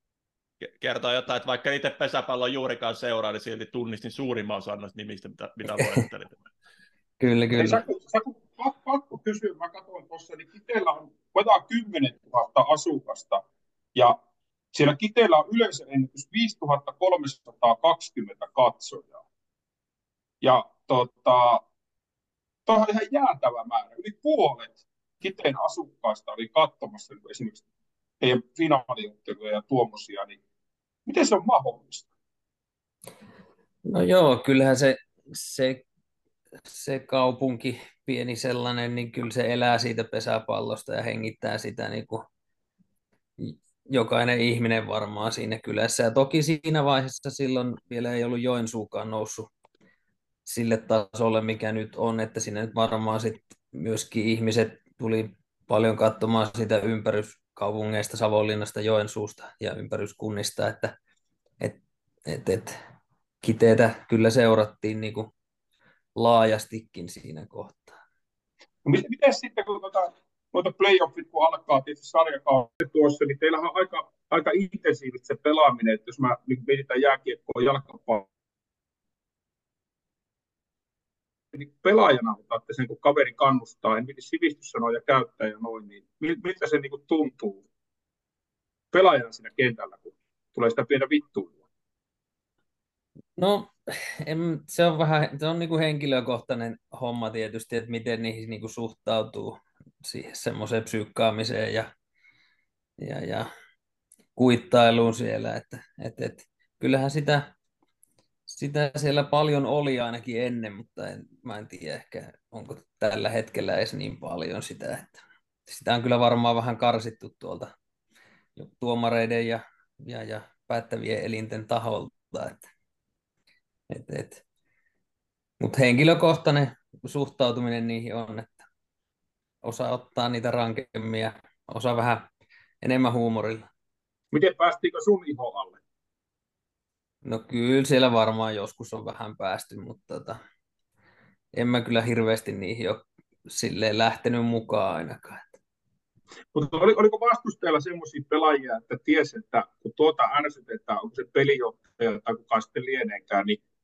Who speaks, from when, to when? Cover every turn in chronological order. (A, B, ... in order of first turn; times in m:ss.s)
0:00.6-0:06.4 A
0:07.2-0:07.8 B
0:07.5-0:13.4 C
0:14.7-0:19.2 C
0:20.4-0:21.6 C
0:22.7-0:27.6 C
0:28.2-0:30.4 C
0:31.0-0:32.1 C
0:33.9-0:35.8 B
0:36.6-0:42.3 B
0:43.4-0:49.5 B
0:50.4-1:00.9 B
1:01.6-1:02.7 B
1:03.4-1:05.3 B
1:06.2-1:08.0 B
1:08.8-1:18.3 C
1:21.5-1:27.6 C
1:28.9-1:31.6 C
1:33.4-1:41.9 B
1:43.0-1:43.5 B
1:44.4-1:47.5 B
1:48.5-1:57.7 B
1:58.6-2:02.6 B
2:03.9-2:04.4 B
2:05.6-2:08.6 B
2:09.6-2:12.3 B
2:12.8-2:13.6 B
2:14.3-2:15.8 C
2:17.2-2:20.4 B
2:21.5-2:25.6 B
2:26.5-2:33.6 C